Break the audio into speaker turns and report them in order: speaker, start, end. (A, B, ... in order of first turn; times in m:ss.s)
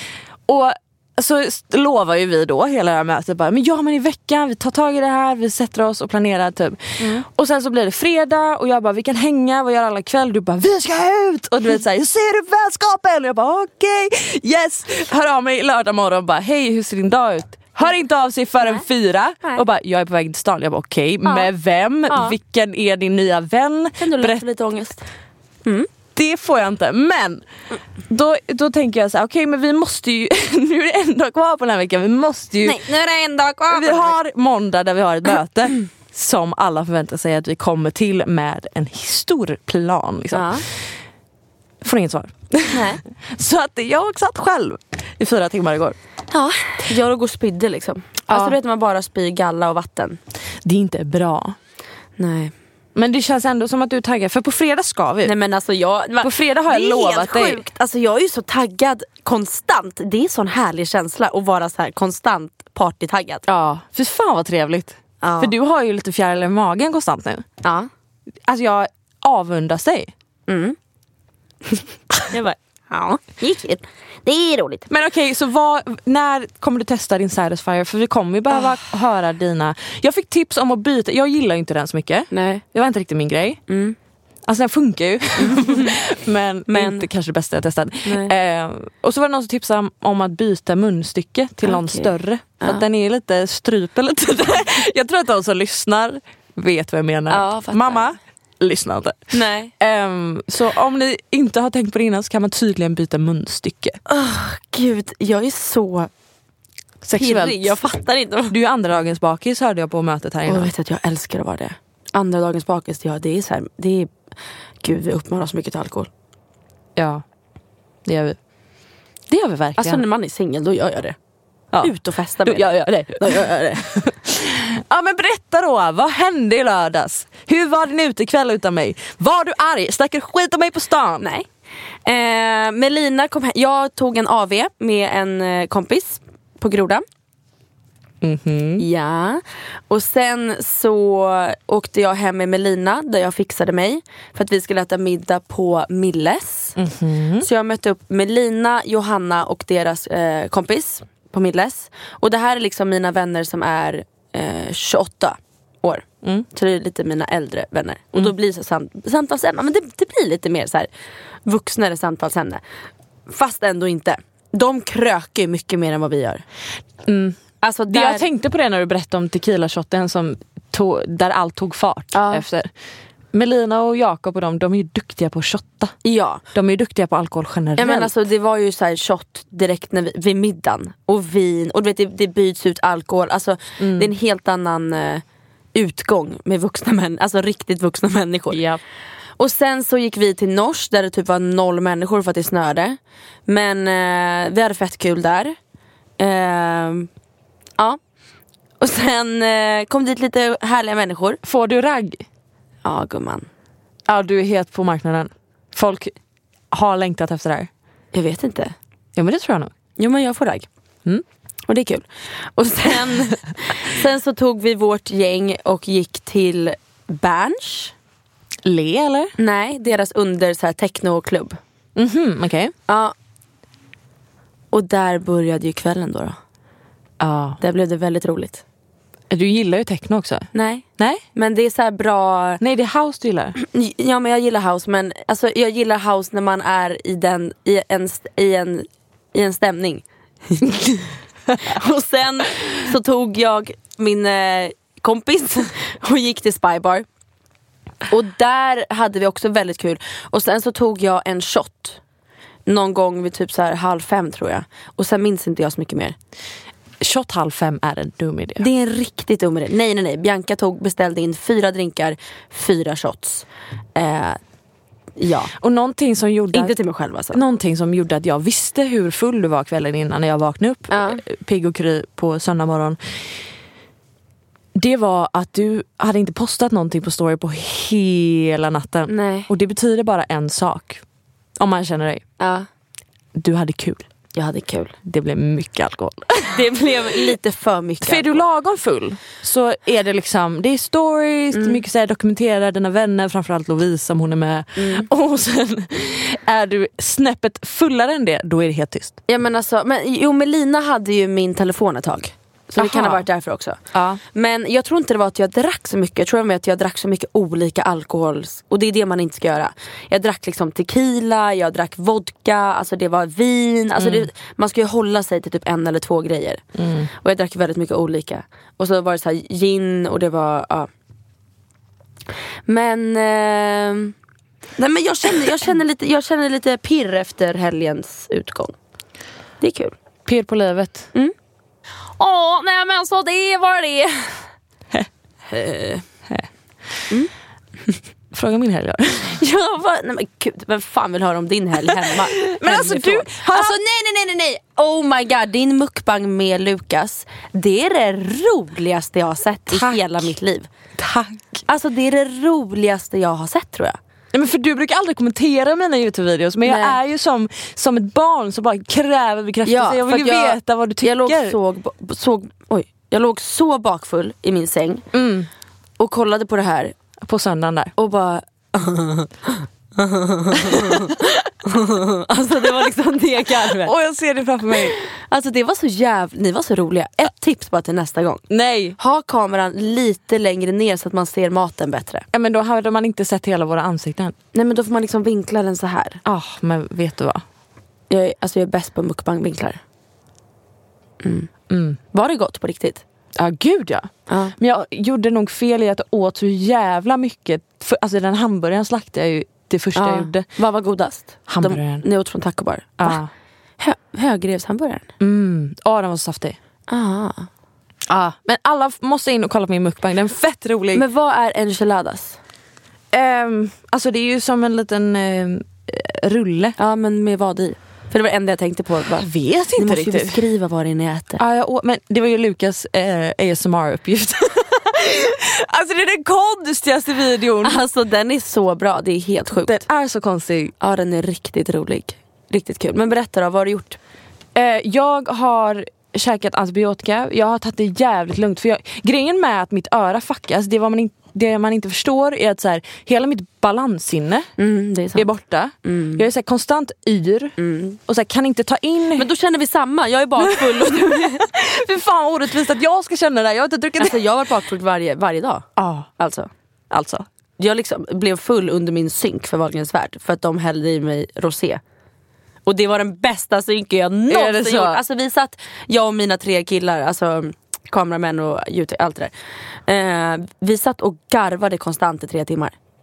0:00.5-0:24.4 A
0:07.0-0:07.2 B
0:21.2-0:21.5 B
0:22.1-0:22.4 B
0:24.0-0:25.0 B
0:26.2-0:27.4 A
0:28.1-0:32.8 A
0:32.6-0:34.2 B
0:33.7-0:40.6 A
0:40.3-0:40.6 B
0:41.8-0:46.0 A
0:42.7-0:43.0 B
0:46.3-0:50.2 B
0:48.3-0:48.6 A
0:50.6-0:51.6 A
0:52.2-0:52.5 B
0:53.0-0:55.4 A
0:55.2-1:03.4 B
0:56.2-0:57.6 A
1:03.5-1:07.5 A
1:05.2-1:05.6 B
1:07.6-1:07.9 B
1:08.4-1:10.1 A
1:10.5-1:10.8 B
1:12.3-1:14.9 B
1:14.9-1:23.6 A
1:22.3-1:22.6 B
1:23.7-1:24.0 B
1:24.5-1:44.0 A
1:25.4-1:26.0 B
1:26.7-1:27.1 B
1:28.0-1:28.3 B
1:31.6-1:32.8 B
1:37.3-1:38.1 B
1:39.3-1:39.7 B
1:44.1-1:46.1 B
1:47.0-1:47.8 A
1:47.1-1:48.6 B
1:48.5-1:50.7 A
1:50.5-1:54.1 B
1:54.8-1:56.1 B
1:57.0-1:57.2 A
1:58.1-1:58.4 A
1:59.3-2:00.0 A
1:59.8-2:01.2 B
2:01.7-2:03.4 A
2:01.8-2:04.0 B
2:04.0-2:11.3 A
2:11.2-2:11.5 B
2:12.1-2:17.0 B
2:18.2-2:18.8 A
2:18.8-2:26.8 B
2:26.8-2:27.5 A
2:27.4-2:40.9 B
2:41.4-2:42.6 B
2:43.3-2:46.4 B
2:47.1-2:47.4 A
2:47.6-2:48.3 B
2:47.9-2:52.7 A
2:52.1-2:52.4 B
2:53.3-2:56.0 A
2:56.0-2:56.4 B
2:56.5-2:58.1 A
2:57.8-3:05.2 B
3:03.8-3:04.1 A
3:05.7-3:08.6 B
3:08.5-3:08.8 A
3:09.4-3:15.6 B
3:16.2-3:17.1 B
3:18.8-3:21.4 B
3:21.4-3:22.2 A
3:22.8-3:23.5 B
3:24.1-3:26.2 A
3:26.7-3:27.7 A
3:28.1-3:28.8 B
3:29.2-3:29.7 A
3:30.0-3:30.7 B
3:31.7-3:37.9 B
3:38.6-3:39.3 A
3:39.4-3:41.6 B
3:42.0-3:42.7 A
3:42.9-3:43.1 B
3:44.7-3:46.4 B
3:47.2-3:47.6 A
3:47.6-3:48.6 B
3:49.3-3:51.2 A
3:50.5-3:52.6 B
3:52.6-3:53.6 A
3:53.6-4:01.0 B
4:01.6-4:07.1 B
4:08.1-4:12.0 B
4:12.7-4:16.2 B
4:17.0-4:18.7 A
4:18.6-4:24.4 B
4:25.2-4:25.5 B
4:25.6-4:26.8 A
4:26.5-4:27.4 B
4:27.3-4:33.2 A
4:30.9-4:31.2 B
4:34.8-4:41.0 A
4:39.1-4:39.5 B
4:41.6-4:42.2 A
4:42.4-4:42.7 B
4:43.4-4:44.1 A
4:44.3-4:45.0 B
4:45.0-4:46.6 A
4:46.5-4:48.4 B
4:48.0-4:59.2 A
4:51.5-4:51.8 B
4:54.8-4:55.1 B
4:59.3-5:03.8 B
5:02.8-5:03.2 A
5:03.9-5:04.2 A
5:04.3-5:20.9 B
5:14.0-5:14.3 A
5:16.8-5:17.1 A
5:22.7-5:24.1 B
5:24.8-5:28.7 B
5:29.6-5:30.0 B
5:30.3-5:31.1 A
5:32.2-5:34.4 B
5:35.5-5:36.0 B
5:38.3-5:39.4 A
5:39.4-5:50.7 B
5:41.9-5:43.8 A
5:49.7-5:50.3 A
5:51.0-5:51.6 A
5:51.7-5:54.0 B
5:54.3-6:01.6 A
5:56.6-5:57.0 B
5:59.7-6:05.1 B
6:05.1-6:05.5 A
6:06.0-6:07.0 B
6:07.2-6:07.9 A
6:08.0-6:13.9 B
6:10.7-6:11.0 A
6:13.8-6:15.0 A
6:14.8-6:18.4 B
6:18.5-6:19.0 A
6:19.0-6:22.3 B
6:22.3-6:24.4 A
6:24.5-6:26.2 B
6:26.2-6:27.4 A
6:28.1-6:29.8 B
6:31.2-6:31.5 B
6:31.7-6:32.0 A
6:32.1-6:33.0 B
6:33.4-6:40.5 A
6:34.3-6:34.5 B
6:40.0-6:43.2 B
6:41.5-6:42.1 A
6:43.0-6:43.3 A
6:43.8-6:45.1 B
6:45.2-6:46.6 A
6:46.9-6:47.5 B
6:48.1-6:51.0 A
6:50.9-6:52.4 B
6:53.1-6:56.8 A
6:56.8-7:01.4 B
6:59.2-7:00.4 A
7:01.4-7:07.8 A
7:07.6-7:09.8 B
7:09.6-7:10.7 A
7:10.8-7:14.0 B
7:14.6-7:24.5 A
7:24.6-7:25.3 B
7:25.2-7:29.3 A
7:25.8-7:26.3 B
7:27.6-7:28.0 B
7:29.2-7:31.5 B
7:30.4-7:34.2 A
7:34.0-7:36.5 B
7:35.8-7:36.1 A
7:36.9-7:37.3 A
7:37.6-7:41.8 B
7:42.7-7:49.3 B
7:44.3-7:45.0 A
7:49.9-7:52.7 B